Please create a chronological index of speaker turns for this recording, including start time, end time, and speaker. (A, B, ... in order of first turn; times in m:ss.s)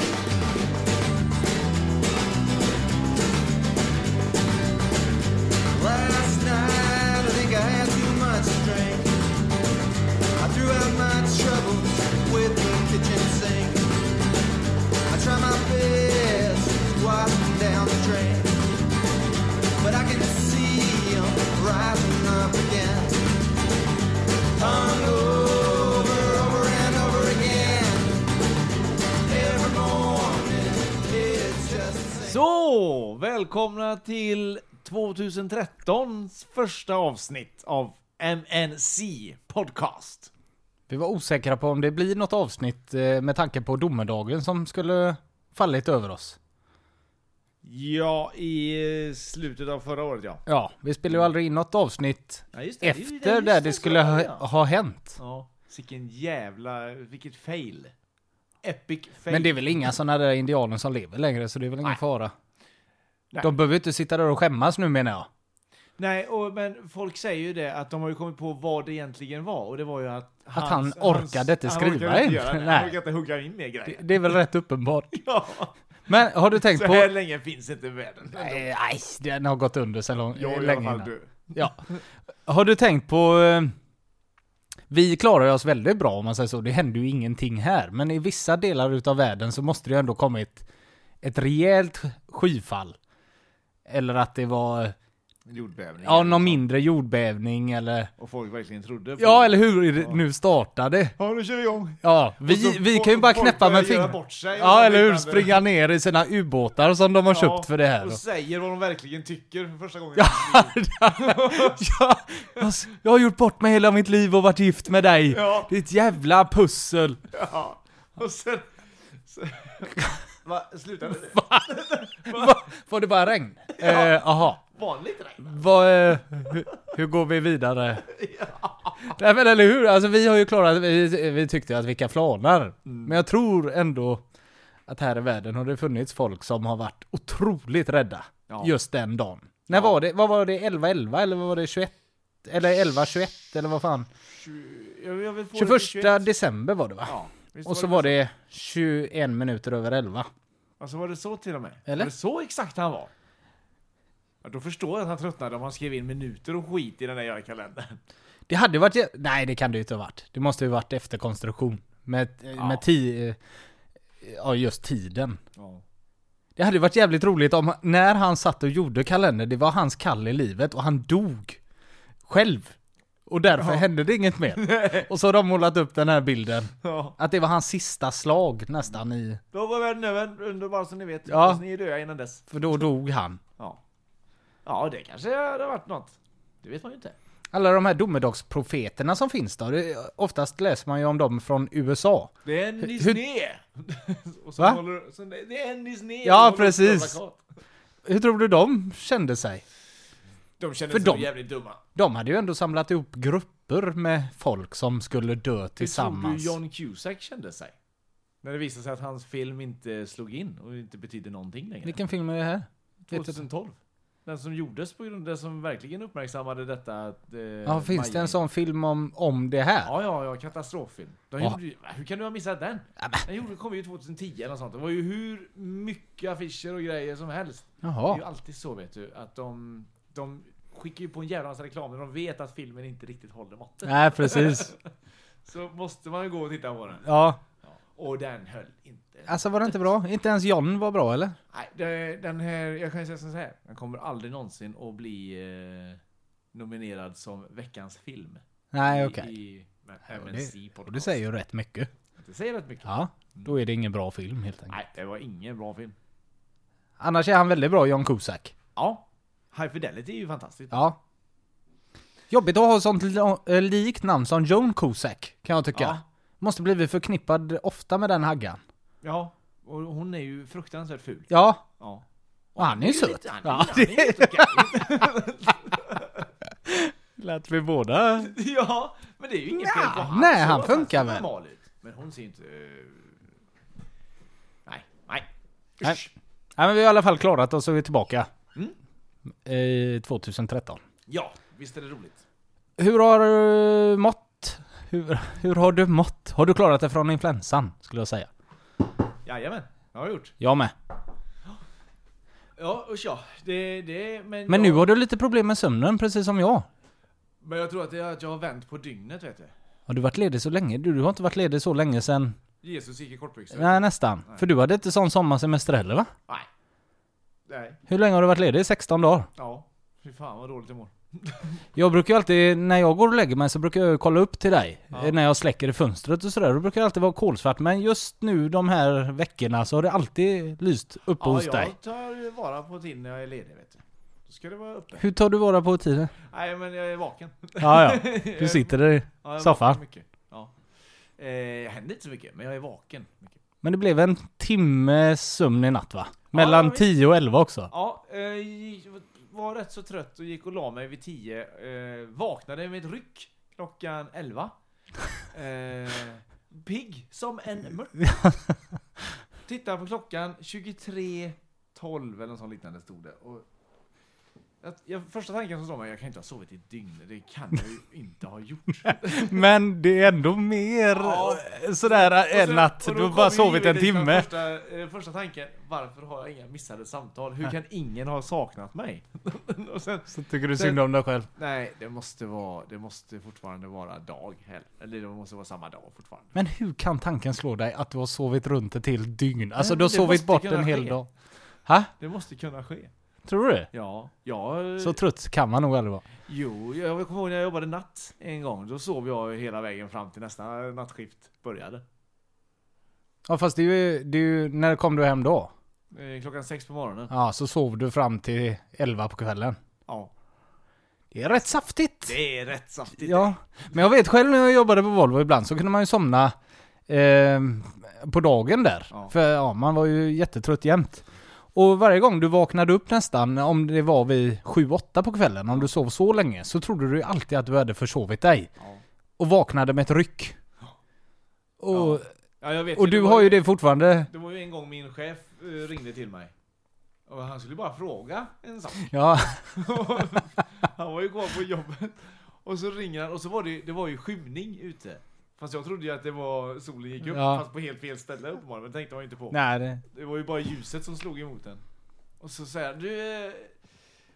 0:05.7-0:09.1 A
0:10.4-0:13.9 A
0:15.1-0:18.5 A
0:19.8-0:23.2 A
0:24.6-0:28.2 A
0:29.3-0:32.3 A
0:32.2-0:40.3 B
0:40.9-0:46.4 C
0:47.6-0:50.4 B
0:50.5-0:55.2 C
0:52.5-0:54.4 B
0:55.2-0:57.9 B
0:58.6-0:59.8 B
0:59.3-1:02.3 C
1:03.4-1:05.3 C
1:06.0-1:14.4 B
1:10.5-1:13.0 C
1:13.9-1:15.2 C
1:15.1-1:15.7 B
1:16.1-1:17.1 C
1:16.6-1:18.7 B
1:18.4-1:21.8 C
1:20.3-1:21.9 B
1:22.4-1:23.7 C
1:24.9-1:30.6 C
1:31.2-1:33.0 C
1:33.8-1:34.9 C
1:35.4-1:36.6 B
1:36.0-1:38.1 C
1:38.2-1:40.2 B
1:39.2-1:41.1 C
1:41.2-1:45.6 B
1:42.0-1:48.2 C
1:47.3-1:51.8 B
1:50.2-1:57.2 C
1:55.3-1:55.7 B
1:57.3-2:02.6 B
2:02.2-2:04.6 C
2:03.8-2:05.6 B
2:05.4-2:08.0 C
2:08.1-2:09.1 B
2:09.0-2:14.2 C
2:12.8-2:13.2 B
2:14.9-2:21.9 C
2:18.5-2:18.8 B
2:19.7-2:20.0 B
2:22.4-2:24.1 C
2:24.3-2:26.3 B
2:25.5-2:30.3 C
2:27.0-2:28.2 B
2:30.8-2:33.1 B
2:31.9-2:32.1 C
2:34.4-2:38.0 B
2:38.5-2:43.4 C
2:42.5-2:42.8 B
2:44.2-2:45.4 C
2:45.6-2:45.8 B
2:46.6-2:51.6 C
2:52.3-2:52.7 C
2:53.3-2:59.4 C
2:53.5-2:53.8 B
2:54.5-2:55.1 B
2:56.8-2:57.2 B
2:59.5-3:02.5 B
3:01.3-3:01.6 C
3:02.5-3:03.4 C
3:04.6-3:07.2 B
3:07.5-3:13.2 C
3:12.4-3:17.4 B
3:16.2-3:17.2 C
3:18.0-3:19.6 C
3:20.6-3:21.8 B
3:20.9-3:26.6 C
3:25.8-3:27.7 B
3:28.4-3:32.0 B
3:31.8-3:33.4 C
3:33.0-3:38.4 B
3:37.6-3:39.9 C
3:39.8-3:54.8 B
3:47.8-3:48.2 C
3:53.8-3:54.7 C
3:55.4-3:57.1 B
3:57.0-3:57.4 C
3:57.6-3:59.7 B
3:59.3-4:01.4 C
4:01.5-4:06.0 B
4:06.5-4:11.2 B
4:08.7-4:09.3 C
4:10.1-4:11.9 C
4:12.2-4:13.5 B
4:12.8-4:14.8 C
4:14.7-4:15.9 B
4:17.0-4:18.5 C
4:18.8-4:20.8 B
4:20.7-4:21.0 C
4:22.3-4:28.6 C
4:25.7-4:26.0 B
4:29.0-4:32.0 B
4:31.3-4:31.6 C
4:32.6-4:36.3 B
4:32.6-4:34.9 C
4:36.6-4:38.3 C
4:38.2-4:43.1 B
4:39.5-4:41.2 C
4:44.6-4:45.3 B
4:45.8-4:46.1 B
4:46.6-4:48.3 C
4:49.4-4:50.8 C
4:51.1-4:52.2 B
4:52.8-4:58.3 C
4:59.2-5:00.3 B
5:00.4-5:00.7 C
5:02.6-5:04.9 B
5:04.5-5:06.7 C
5:07.4-5:09.5 B
5:09.9-5:12.4 C
5:12.6-5:14.4 B
5:13.5-5:16.1 C
5:17.5-5:17.8 B
5:17.9-5:19.3 C
5:19.4-5:21.5 B
5:21.7-5:31.7 C
5:24.9-5:25.2 B
5:31.2-5:35.1 B
5:35.0-5:36.1 C
5:36.2-5:40.5 B
5:37.6-5:39.8 C
5:41.2-5:43.4 B
5:43.6-5:47.7 C
5:46.3-5:46.9 B
5:47.7-5:54.5 B
5:55.3-5:58.1 B
5:58.0-5:58.4 C
5:59.4-6:03.4 B
6:04.6-6:09.4 B
6:08.9-6:14.3 C
6:10.9-6:20.8 B
6:20.1-6:21.3 C
6:21.4-6:26.3 B
6:26.3-6:31.1 C
6:29.6-6:31.0 B
6:32.0-6:32.9 B
6:33.2-6:33.7 C
6:33.7-6:35.0 B
6:34.8-6:36.0 C
6:36.3-6:41.8 B
6:43.2-6:45.5 C
6:45.9-6:47.1 B
6:47.1-6:49.6 C
6:49.9-6:50.1 B
6:51.1-6:52.2 C
6:52.0-6:53.3 B
6:53.0-6:56.3 C
6:56.9-7:08.5 C
7:09.2-7:10.4 C
7:11.6-7:12.1 C
7:11.7-7:13.4 B
7:12.7-7:14.1 C
7:14.1-7:16.3 B
7:17.1-7:31.6 B
7:18.8-7:19.8 C
7:27.1-7:27.4 C
7:29.3-7:29.8 C
7:32.2-7:33.5 B